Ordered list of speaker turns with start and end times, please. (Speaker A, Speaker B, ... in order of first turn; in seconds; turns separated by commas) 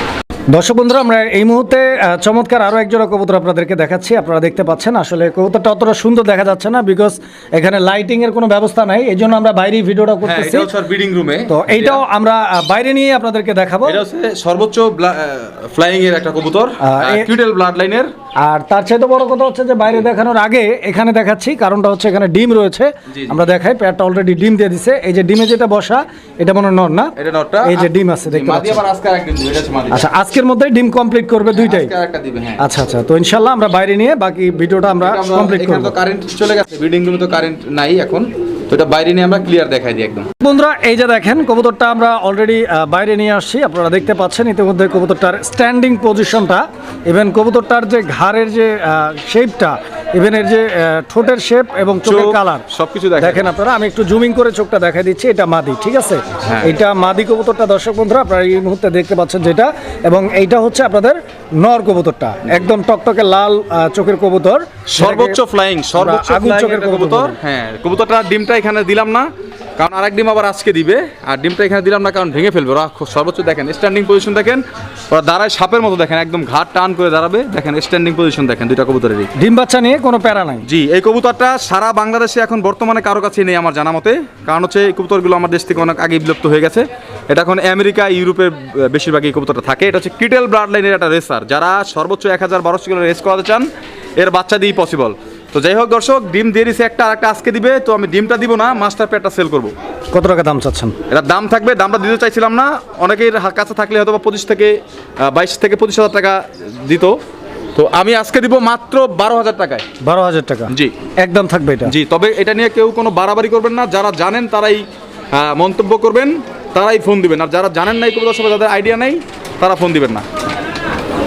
Speaker A: 0.5-10.7, Speaker B: 10.2-12.0, Speaker A: 11.5-14.0, Speaker B: 13.8-18.1, Speaker A: 16.8-17.3, Speaker A: 18.4-28.8, Speaker B: 23.1-23.4, Speaker B: 27.1-30.1, Speaker A: 29.9-31.9, Speaker B: 31.5-32.6, Speaker A: 32.6-36.0, Speaker B: 35.0-40.3, Speaker A: 40.4-52.6, Speaker B: 52.0-53.4, Speaker A: 53.2-65.4, Speaker B: 56.5-56.8, Speaker B: 64.9-79.3, Speaker A: 66.0-67.4, Speaker A: 79.4-80.7, Speaker B: 80.6-99.7, Speaker A: 100.1-101.0, Speaker B: 101.1-107.2, Speaker B: 107.7-109.8, Speaker A: 110.0-111.9, Speaker B: 110.7-110.9, Speaker B: 111.8-120.2